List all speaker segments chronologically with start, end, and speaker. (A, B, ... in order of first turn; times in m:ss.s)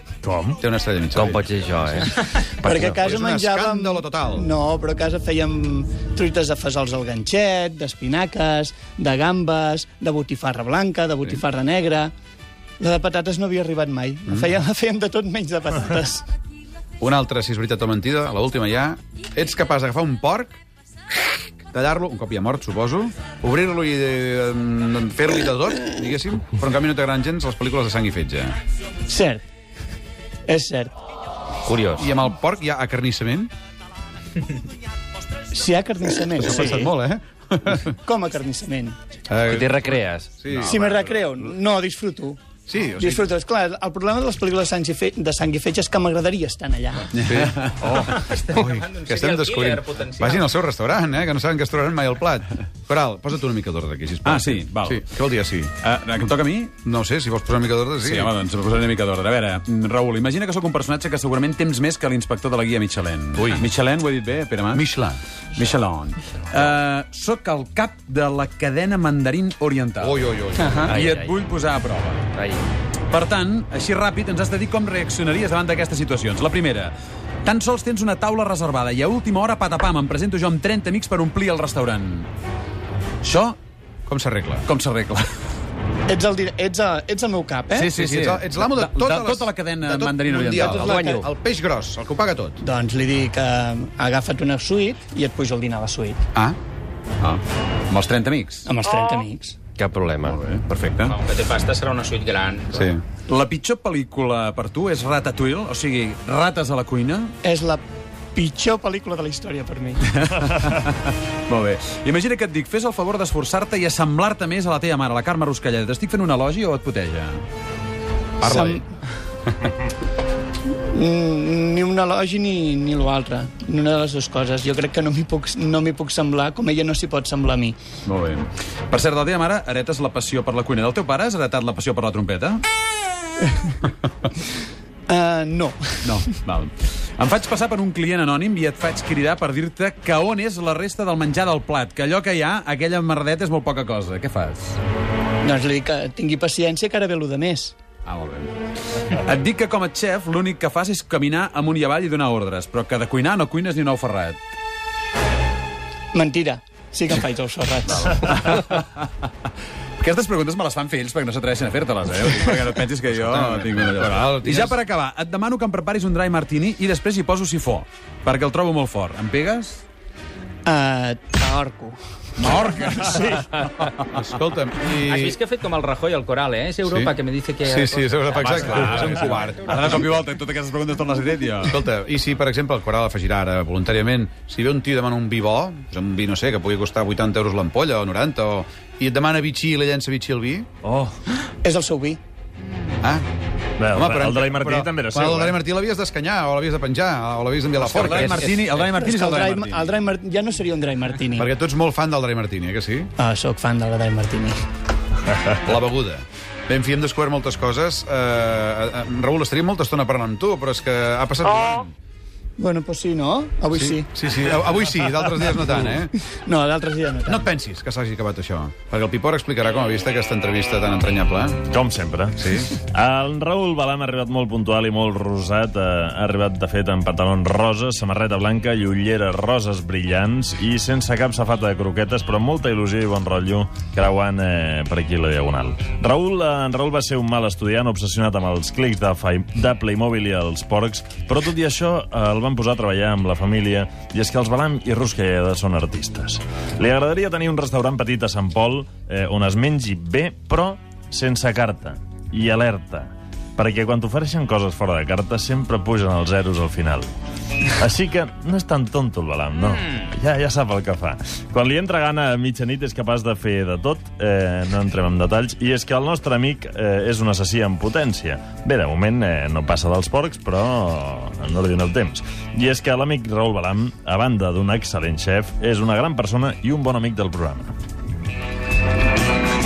0:00.2-0:00.6 A
0:00.6-0:02.1 B
0:01.1-0:03.0 C
0:02.6-0:12.1 D
0:02.7-0:04.5 B
0:12.8-0:16.2 D
0:17.0-0:20.6 B
0:21.7-0:28.6 B
0:29.1-0:29.4 D
0:30.5-0:30.9 D
0:31.7-0:32.1 C
0:32.0-0:33.5 B
0:35.5-0:36.9 D
0:36.4-0:37.9 B
0:37.8-0:39.0 D
0:39.3-0:41.3 B
0:39.5-0:40.6 C
0:40.6-0:42.4 D
0:42.7-0:43.3 B
0:43.0-0:47.1 D
0:47.2-0:55.8 B
0:48.1-0:50.4 E
0:54.2-0:55.0 F
0:55.8-0:56.8 F
0:56.8-0:58.3 B
0:58.0-1:04.8 F
1:03.4-1:03.7 B
1:04.7-1:05.2 B
1:05.6-1:10.2 F
1:10.0-1:10.8 B
1:10.6-1:10.9 D
1:10.9-1:12.3 F
1:10.9-1:11.5 C
1:12.3-1:12.6 C
1:13.1-1:22.3 F
1:23.2-1:23.6 F
1:24.1-1:24.7 B
1:24.7-1:25.3 F
1:26.1-1:27.9 D
1:27.7-1:31.1 F
1:28.0-1:32.6 B
1:29.9-1:31.2 D
1:30.8-1:31.2 C
1:32.6-1:36.2 D
1:37.2-1:38.7 F
1:38.7-1:39.6 D
1:39.8-1:40.9 C
1:40.3-1:41.2 B
1:41.1-1:42.7 E
1:42.7-1:43.0 B
1:43.1-1:47.3 F
1:47.4-1:47.8 D
1:48.4-1:50.0 D
1:50.1-1:57.4 F
1:58.4-1:58.8 B
1:58.4-1:58.8 D
2:00.9-2:07.8 D
2:08.0-2:12.6 F
2:15.1-2:16.3 D
2:16.0-2:24.8 F
2:25.4-2:27.7 D
2:28.0-2:28.5 F
2:29.1-2:34.4 F
2:36.1-2:38.4 D
2:37.9-2:39.3 F
2:40.0-2:49.8 F
2:43.1-2:44.8 B
2:50.6-2:52.0 D
2:52.4-2:53.6 F
2:53.8-2:55.4 B
2:55.1-2:58.6 E
2:56.8-3:00.1 B
2:58.5-3:01.7 F
3:01.6-3:10.7 B
3:10.8-3:11.2 A
3:11.6-3:12.2 D
3:13.8-3:15.6 A
3:13.9-3:18.4 B
3:17.8-3:19.9 F
3:18.9-3:21.5 D
3:21.3-3:23.1 B
3:23.2-3:24.6 D
3:25.6-3:31.9 B
3:32.6-3:34.1 D
3:33.7-3:36.1 B
3:36.3-3:37.5 D
3:37.3-3:41.6 B
3:41.7-4:17.1 A
3:42.4-3:42.8 B
4:17.8-4:37.7 A